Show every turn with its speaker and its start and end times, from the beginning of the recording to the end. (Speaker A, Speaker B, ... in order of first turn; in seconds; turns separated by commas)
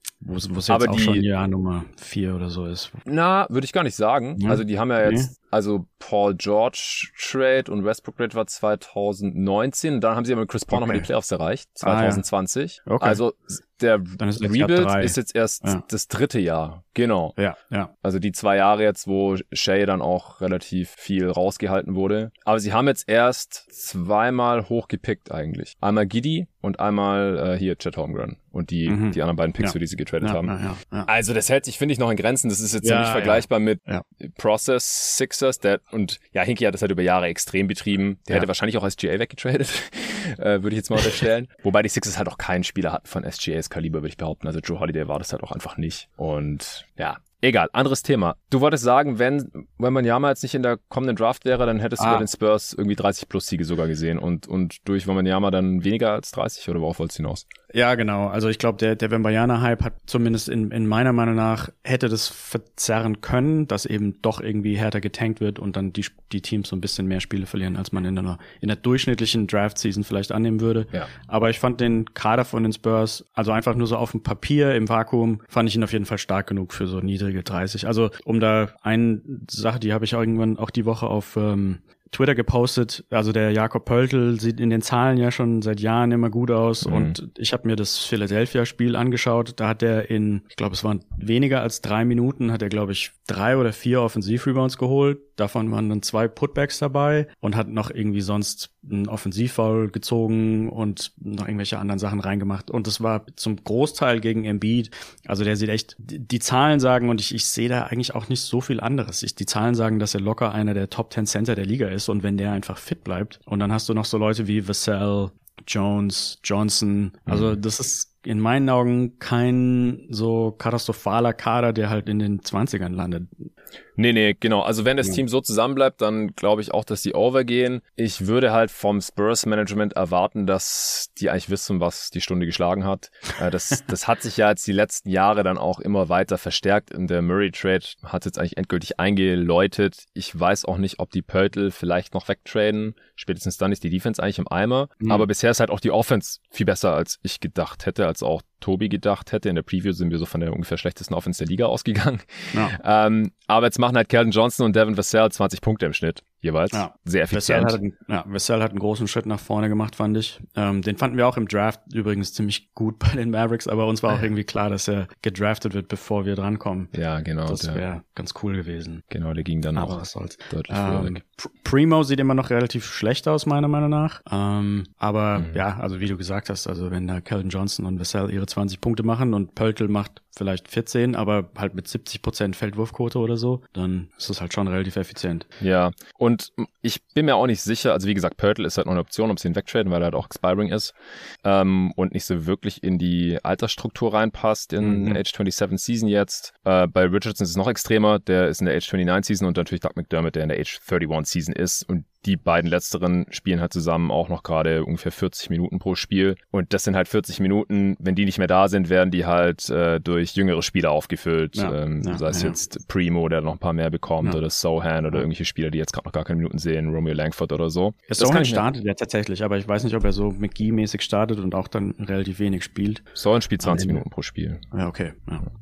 Speaker A: 0.2-3.0, Speaker B: 0.7-1.2, Speaker B: 3.0-17.3, Speaker A: 4.4-5.3, Speaker A: 10.7-11.1, Speaker A: 11.8-12.2, Speaker A: 12.8-13.2, Speaker A: 14.2-15.8, Speaker A: 17.4-17.9, Speaker B: 18.0-30.5, Speaker A: 28.9-31.1, Speaker B: 31.1-57.5, Speaker A: 32.8-34.0, Speaker A: 52.0-52.3, Speaker A: 57.7-123.5, Speaker B: 86.8-87.2, Speaker B: 117.3-117.5, Speaker B: 124.0-157.8, Speaker A: 145.0-145.2, Speaker A: 156.7-166.9, Speaker B: 166.9-167.8, Speaker A: 167.5-169.0, Speaker B: 169.1-170.0, Speaker A: 169.7-185.5, Speaker B: 170.5-171.1, Speaker B: 185.6-218.6, Speaker A: 194.8-195.2, Speaker A: 211.5-212.6, Speaker A: 218.1-223.0, Speaker B: 223.2-224.6, Speaker A: 223.6-224.0, Speaker A: 224.7-225.5